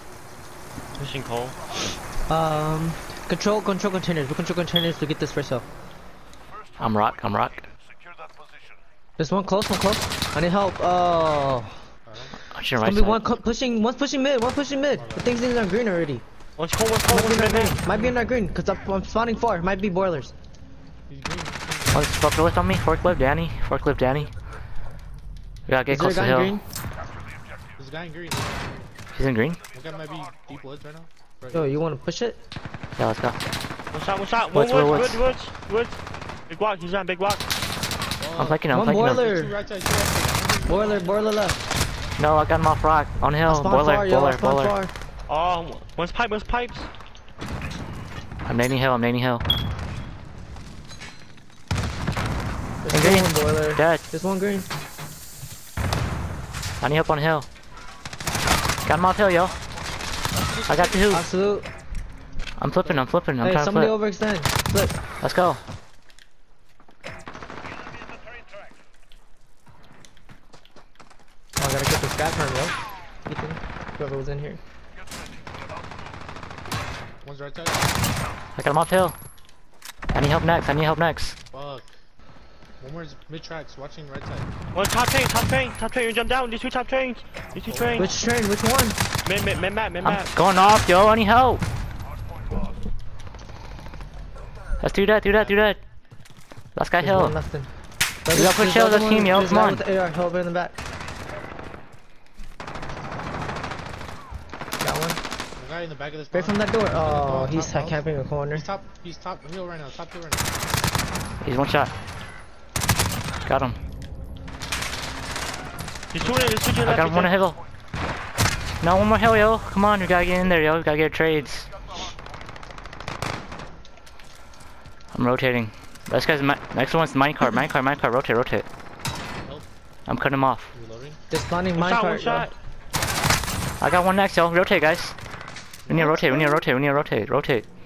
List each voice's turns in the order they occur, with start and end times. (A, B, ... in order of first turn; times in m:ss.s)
0:01.0-0:01.6 A
0:02.3-0:05.7 B
0:06.8-0:07.7 C
0:09.2-0:11.9 B
0:12.1-0:12.4 D
0:12.5-0:13.2 C
0:12.8-0:16.2 B
0:14.9-0:15.4 D
0:16.6-0:17.9 A
0:17.1-0:20.3 B
0:17.8-0:18.2 D
0:21.1-0:22.1 D
0:21.9-0:24.3 C
0:25.7-0:26.6 C
0:25.9-0:26.6 B
0:27.8-0:28.9 D
0:29.1-0:29.6 C
0:29.7-0:31.8 D
0:31.5-0:32.4 B
0:33.0-0:33.4 C
0:33.9-0:37.5 A
0:34.5-0:35.2 C
0:38.2-0:41.4 D
0:38.4-0:39.2 C
0:38.6-0:39.6 B
0:40.6-0:41.6 B
0:42.2-0:44.8 C
0:43.4-0:44.9 B
0:45.3-0:46.9 A
0:48.5-0:49.4 C
0:52.8-0:54.7 B
0:52.9-0:54.0 C
0:56.8-0:57.5 C
0:58.8-0:59.6 C
1:00.3-1:01.1 D
1:00.7-1:01.2 C
1:01.1-1:01.7 B
1:02.6-1:04.0 C
1:03.4-1:05.0 B
1:05.2-1:05.6 C
1:11.6-1:14.6 B
1:17.2-1:18.0 D
1:18.6-1:19.2 C
1:20.1-1:21.4 C
1:21.5-1:22.0 D
1:22.8-1:24.5 D
1:24.7-1:28.1 A
1:27.6-1:28.2 D
1:28.0-1:29.0 B
1:29.2-1:30.4 A
1:30.0-1:31.6 C
1:34.8-1:35.8 C
1:36.8-1:37.3 C
1:37.0-1:37.7 B
1:38.2-1:40.8 B
1:38.3-1:39.8 C
1:44.8-1:45.2 B
1:45.6-1:50.6 D
1:46.3-1:48.7 B
1:51.4-1:51.9 C
1:53.5-1:53.8 C
1:56.1-1:57.5 A
1:56.2-1:56.6 D
1:56.8-1:57.6 C
1:58.8-2:01.7 C
2:05.1-2:08.7 C
2:10.1-2:10.7 C
2:10.7-2:11.2 D
2:11.3-2:12.5 B
2:11.8-2:12.6 A
2:13.8-2:15.2 C
2:15.9-2:16.7 D
2:15.9-2:17.7 C